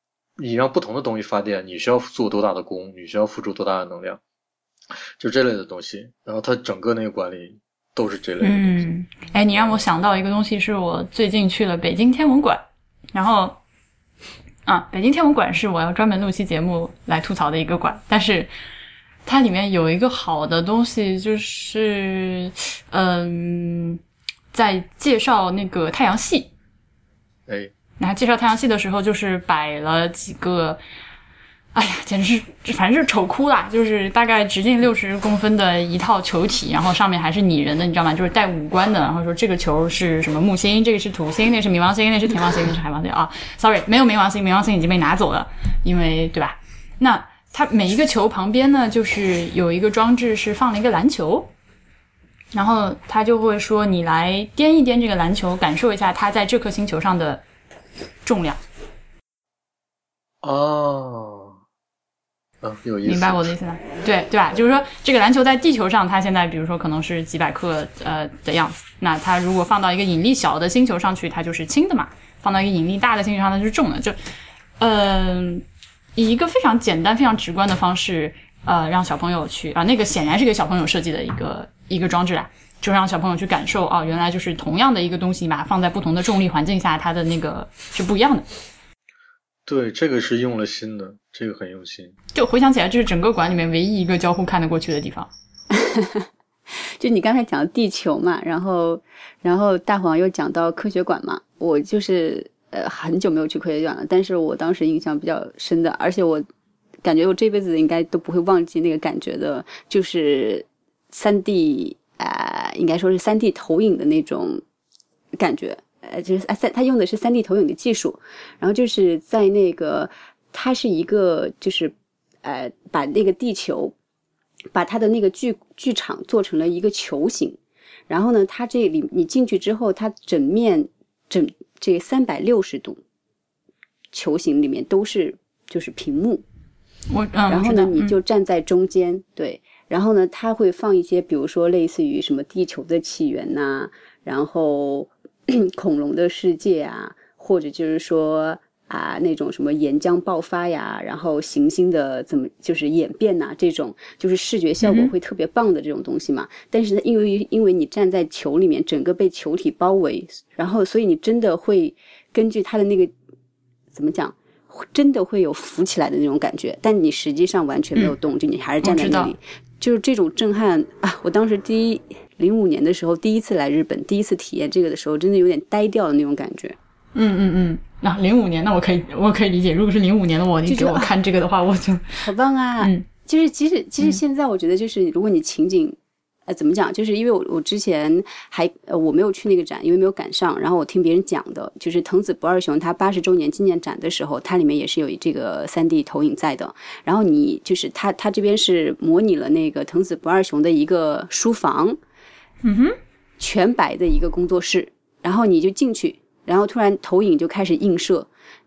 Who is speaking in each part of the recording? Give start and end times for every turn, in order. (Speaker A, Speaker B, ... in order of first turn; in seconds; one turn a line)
Speaker A: 0.4-4.2
Speaker A: 5.2-8.9
Speaker B: 8.4-12.6
Speaker B: 13.1-13.6
Speaker B: 14.7-18.5
Speaker B: 19.3-24.0
Speaker B: 24.5-26.5
Speaker A: 27.5-27.7
Speaker B: 28.0-30.8
Speaker B: 31.7-51.5
Speaker B: 52.5-57.4
Speaker B: 58.2-58.6
Speaker A: 60.4-61.6
Speaker A: 62.6-63.5
Speaker B: 63.0-74.2
Speaker B: 74.8-75.6
Speaker B: 76.2-88.5
Speaker A: 89.7-92.2
Speaker B: 92.3-95.3
Speaker C: 95.7-106.4
Speaker C: 107.0-114.6
Speaker C: 115.4-123.9
Speaker C: 124.7-133.0
Speaker C: 134.1-136.4
Speaker B: 137.1-138.2
Speaker C: 137.5-163.1
Speaker B: 154.8-155.1
Speaker C: 163.9-176.8
Speaker B: 168.8-169.3
Speaker B: 177.1-182.3
Speaker C: 180.7-181.1
Speaker C: 182.2-202.0
Speaker B: 202.6-202.9
Speaker C: 203.4-208.3